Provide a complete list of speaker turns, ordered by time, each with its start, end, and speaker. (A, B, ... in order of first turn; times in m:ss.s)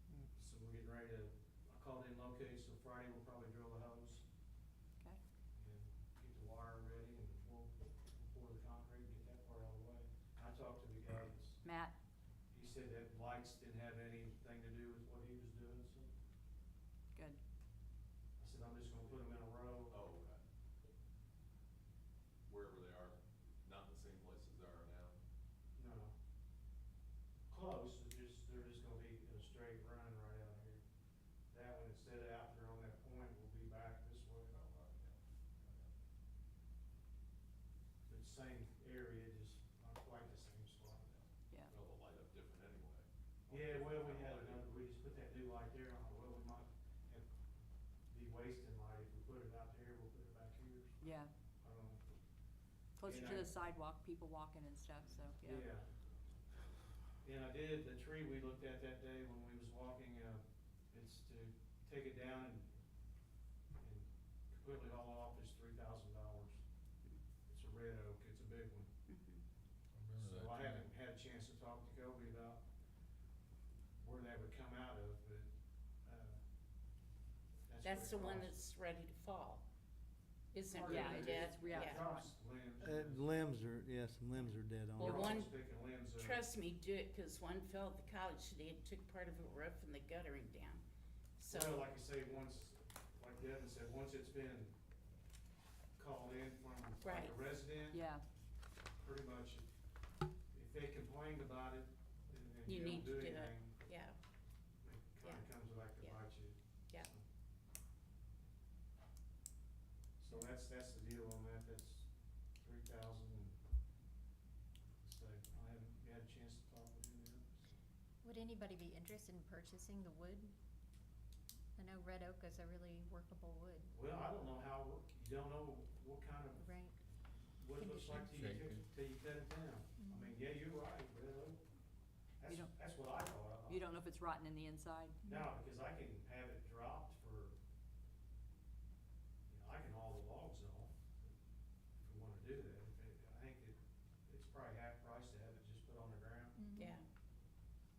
0:00.3-0:04.2 A
0:05.6-0:11.6 A
0:11.6-0:12.0 B
0:12.5-0:16.1 A
0:17.1-0:17.4 B
0:18.4-0:20.0 A
0:19.9-0:20.4 C
0:22.5-0:25.2 C
0:25.8-0:26.1 A
0:27.5-0:30.8 A
0:31.5-0:34.6 A
0:34.5-0:35.9 C
0:38.1-0:41.2 A
0:41.7-0:44.7 C
0:43.5-0:47.3 A
0:48.1-0:51.0 A
0:51.0-0:51.3 B
0:51.6-0:52.0 A
0:53.0-0:55.7 B
0:53.0-0:53.5 A
0:55.4-0:55.9 A
0:57.2-1:02.7 A
1:03.8-1:06.6 A
1:07.5-1:08.9 A
1:09.1-1:09.4 D
1:10.0-1:10.9 C
1:10.2-1:12.6 A
1:14.0-1:15.5 A
1:16.0-1:16.4 A
1:17.7-1:18.6 A
1:17.8-1:19.7 D
1:20.5-1:22.0 D
1:20.7-1:23.2 A
1:20.8-1:22.3 B
1:22.8-1:25.3 E
1:25.0-1:26.4 A
1:25.0-1:30.8 D
1:31.4-1:31.9 D
1:31.5-1:34.7 A
1:36.0-1:38.0 A
1:37.0-1:37.5 D
1:37.9-1:38.2 B
1:39.0-1:39.7 A
1:40.5-1:43.8 A
1:42.7-1:44.2 D
1:44.8-1:47.2 A
1:45.2-1:46.2 D
1:50.2-1:53.6 A
1:55.0-1:57.7 A
1:58.2-2:00.5 F
2:01.8-2:03.9 F
2:03.9-2:06.7 A
2:06.6-2:06.9 F
2:07.6-2:11.6 A
2:07.8-2:08.1 F
2:08.2-2:08.6 C
2:10.0-2:10.3 F
2:12.4-2:13.8 A
2:13.7-2:15.2 B
2:15.2-2:15.5 F
2:15.2-2:17.6 A
2:19.5-2:21.3 A
2:22.0-2:26.6 A
2:26.6-2:27.0 F
2:26.8-2:27.0 D